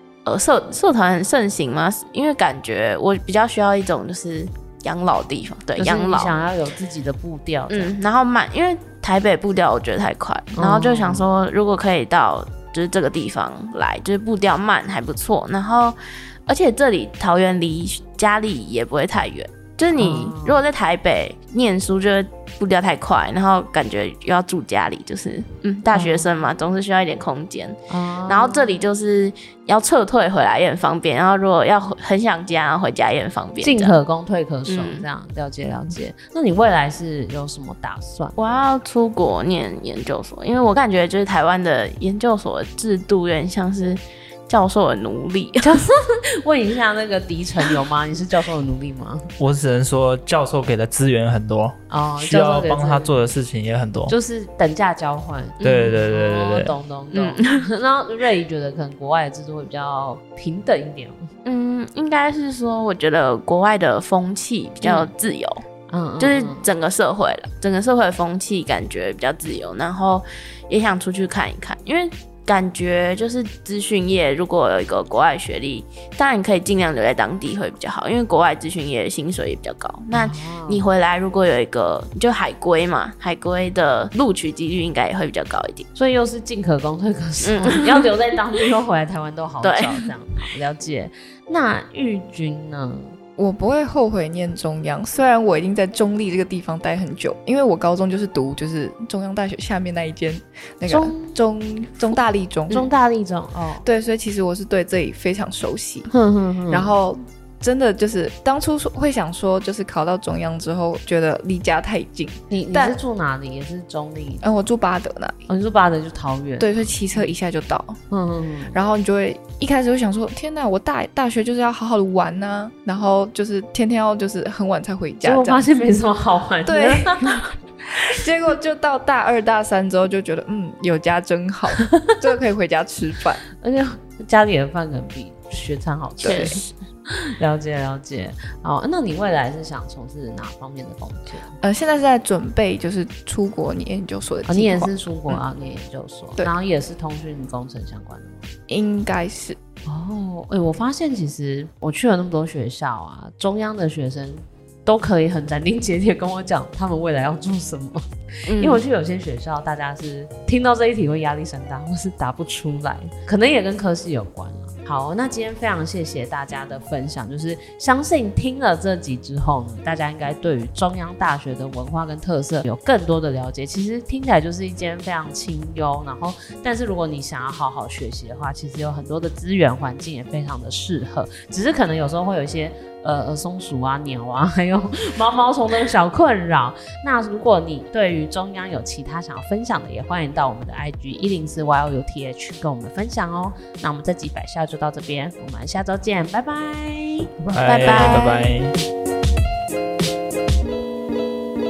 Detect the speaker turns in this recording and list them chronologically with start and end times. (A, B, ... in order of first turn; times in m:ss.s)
0:00.2-0:06.3 A
0:05.8-0:07.9 B
0:07.7-0:34.0 A
0:10.5-0:11.3 B
0:20.0-0:20.6 B
0:25.9-0:26.3 B
0:27.9-0:28.8 B
0:33.6-0:38.4 B
0:34.7-0:35.0 A
0:38.4-0:45.7 A
0:45.6-0:49.3 B
0:49.4-0:54.2 C
0:51.9-0:53.2 B
0:54.1-1:01.3 B
0:55.6-0:56.7 C
0:57.1-0:57.7 A
1:01.4-1:05.6 A
1:04.8-1:05.1 B
1:05.9-1:06.6 B
1:06.2-1:25.9 A
1:20.1-1:20.8 B
1:26.0-1:33.2 B
1:27.4-1:28.1 A
1:29.6-1:30.0 A
1:33.4-1:42.9 D
1:40.9-1:41.4 B
1:42.7-1:43.9 B
1:43.8-1:46.1 D
1:46.1-1:46.9 B
1:46.7-1:53.0 D
1:52.5-1:54.4 B
1:54.4-1:55.5 D
1:55.5-1:57.3 B
1:56.6-1:58.0 D
1:58.1-1:58.7 B
1:58.7-2:05.6 D
2:05.2-2:07.4 B
2:06.6-2:13.4 D
2:13.6-2:21.5 B
2:16.2-2:16.6 D
2:16.2-2:16.8 A
2:21.6-2:25.4 D
2:24.5-2:28.5 B
2:28.7-2:29.6 D
2:29.9-3:17.3 B
2:38.5-2:38.8 A
3:17.5-3:18.8 C
3:17.6-3:18.4 A